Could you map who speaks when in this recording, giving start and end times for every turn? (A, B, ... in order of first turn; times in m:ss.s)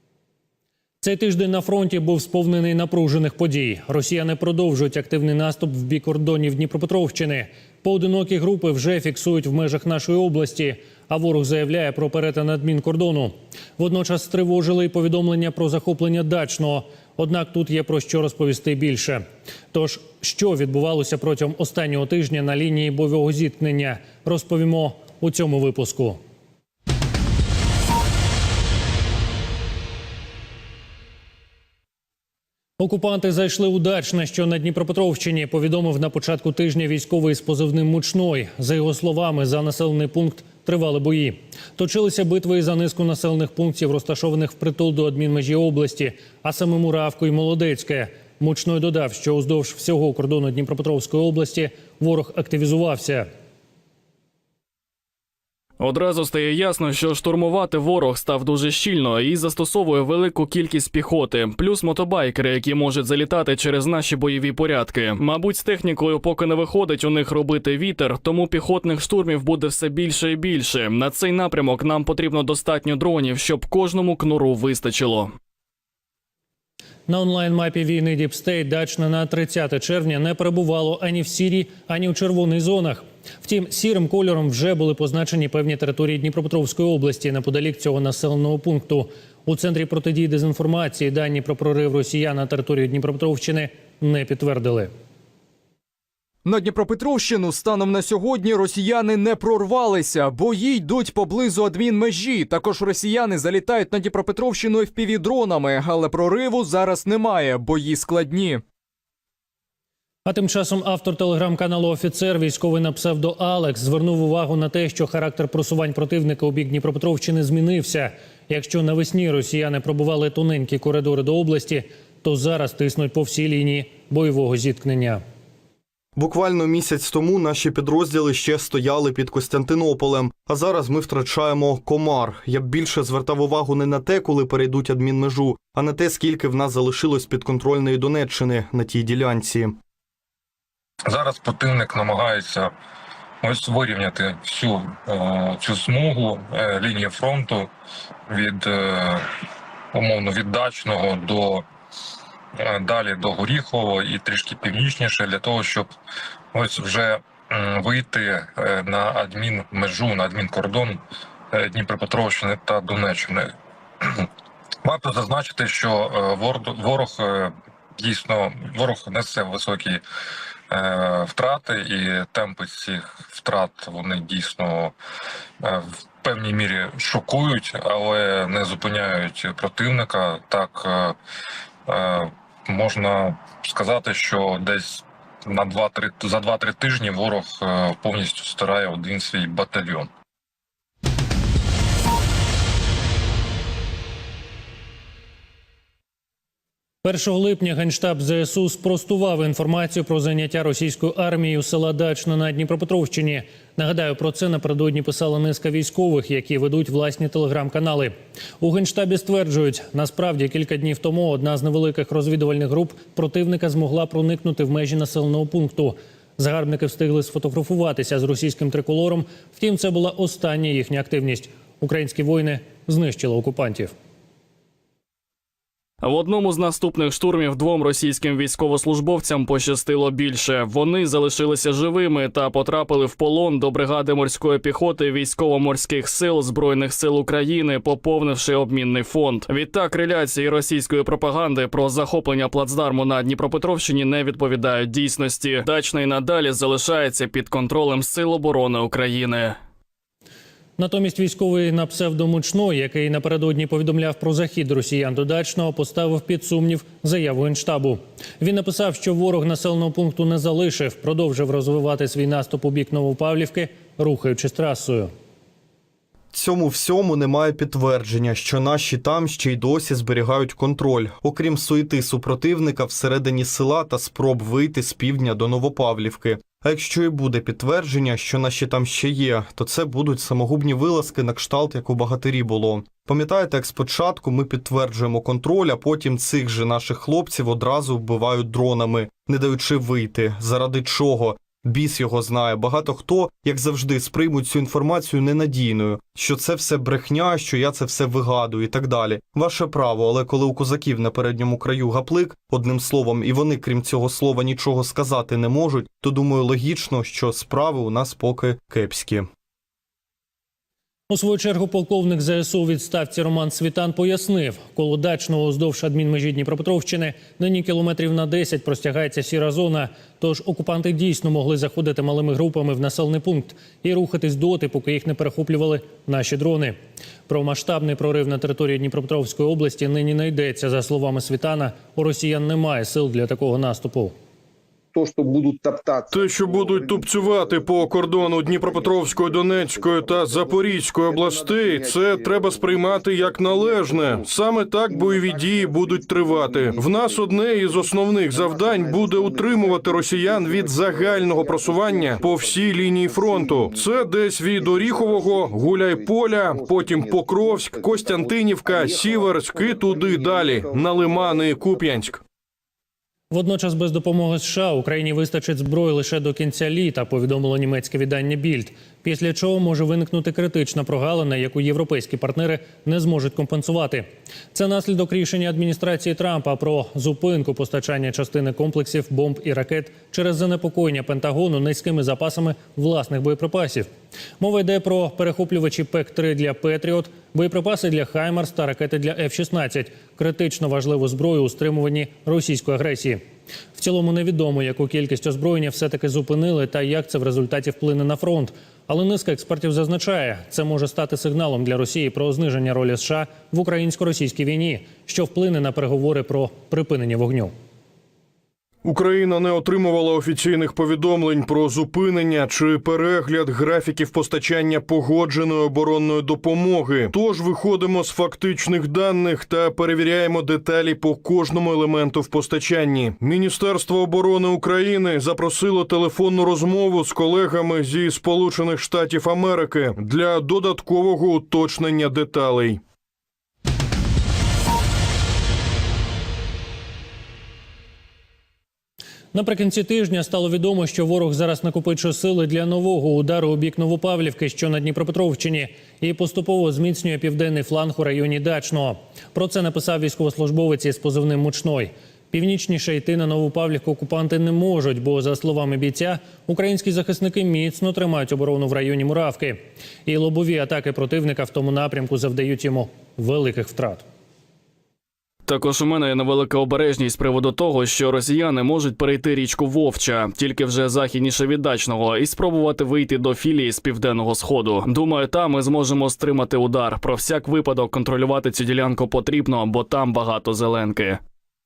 0:01.0-0:26.2 A
0:32.8-0:53.3 A
0:55.8-1:15.3 B
1:17.1-1:34.9 A
1:36.4-1:48.6 C
1:50.3-2:05.2 A
2:06.2-2:19.8 D
2:21.1-2:22.7 E
2:23.4-2:27.7 E
2:28.3-2:29.2 E
2:29.9-2:31.6 E
2:32.6-2:35.9 E
2:36.5-2:41.0 E
2:41.5-2:43.5 E
2:44.0-2:44.3 E
2:44.8-2:50.0 E
2:50.7-2:54.9 E
2:55.6-3:01.2 E
3:01.9-3:10.1 E
3:17.0-3:43.9 A
3:46.0-4:09.6 B
4:10.8-4:25.1 A
4:26.3-5:09.2 D
5:11.1-5:26.8 A
5:27.3-5:34.1 A
5:34.9-5:44.3 F
5:36.1-6:02.2 G
5:44.9-6:02.0 F
6:03.3-6:23.9 A
6:24.4-6:33.2 A
6:33.8-6:47.5 A
6:48.8-7:12.8 G
7:19.3-7:44.0 A
7:45.5-8:01.2 B